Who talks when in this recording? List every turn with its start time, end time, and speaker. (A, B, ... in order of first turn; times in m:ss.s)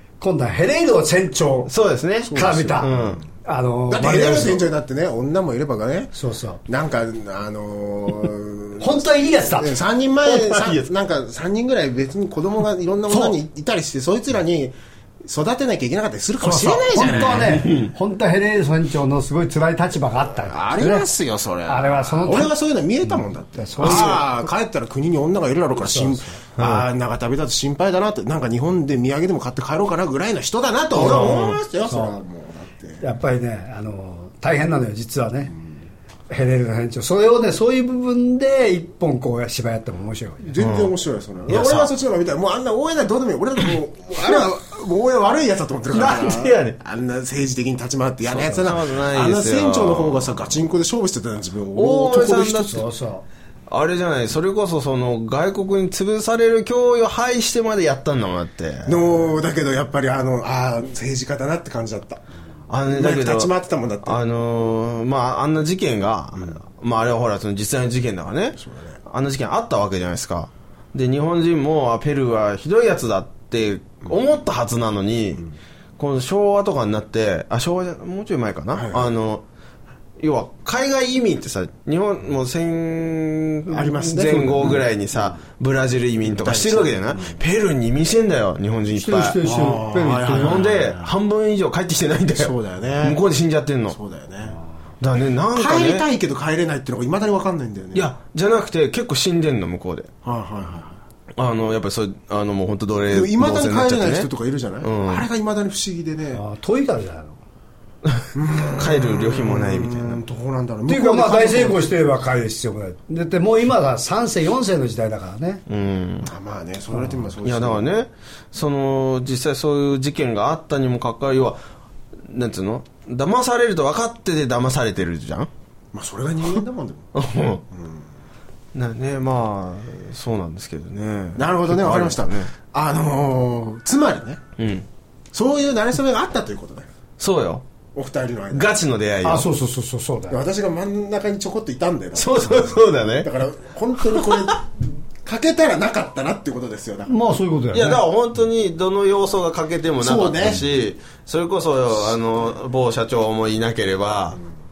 0:00.2-0:01.7 A
0:01.7-0:03.2 B
0:02.3-0:03.2 C
0:02.3-0:02.9 A
0:03.4-0:04.6 A
0:03.9-0:06.1 C
0:06.1-0:06.6 A
0:06.7-0:17.7 C
0:08.8-0:09.8 A
0:10.2-0:10.9 B
0:13.1-0:13.4 B
0:16.4-0:21.0 A
0:17.0-0:17.9 B
0:20.5-0:33.0 C
0:21.7-0:22.5 A
0:23.6-0:24.4 A
0:25.8-0:26.3 A
0:26.6-0:26.9 B
0:31.0-0:31.6 B
0:31.9-0:32.1 A
0:33.0-0:35.5 A
0:36.3-0:40.5 A
0:40.4-0:52.8 C
0:40.6-0:40.9 B
0:41.5-0:41.9 B
0:45.9-0:46.8 B
0:48.4-0:50.3 B
0:51.8-0:52.8 B
0:52.6-0:53.2 A
0:53.7-0:59.0 B
0:58.9-1:02.2 C
1:02.7-1:15.4 B
1:02.9-1:04.2 C
1:08.6-1:09.0 C
1:16.0-1:19.4 B
1:18.7-1:19.1 C
1:20.2-1:29.4 B
1:23.7-1:24.8 C
1:26.3-1:27.4 C
1:29.0-1:30.6 A
1:29.4-1:31.1 C
1:30.3-1:34.0 B
1:32.3-1:33.2 C
1:33.9-1:34.6 C
1:35.0-1:36.1 B
1:35.5-1:38.1 C
1:37.9-1:40.1 B
1:40.2-1:41.0 C
1:41.4-1:44.3 B
1:43.1-1:46.4 C
1:44.8-1:45.3 B
1:46.3-1:47.4 A
1:48.4-1:51.9 C
1:48.8-1:50.2 B
1:50.9-1:55.6 A
1:55.7-1:56.3 B
1:56.2-1:57.9 C
1:57.4-2:01.6 B
2:02.2-2:05.5 B
2:05.9-2:07.1 C
2:07.2-2:07.6 B
2:07.7-2:08.0 C
2:08.7-2:12.5 B
2:11.4-2:14.4 C
2:14.6-2:14.9 B
2:15.3-2:16.9 C
2:17.2-2:17.6 B
2:17.9-2:18.8 C
2:18.5-2:19.5 B
2:19.2-2:20.4 A
2:20.3-2:27.2 C
2:22.2-2:23.3 B
2:24.1-2:24.5 B
2:27.1-2:28.0 A
2:27.7-2:34.4 B
2:30.0-2:30.7 C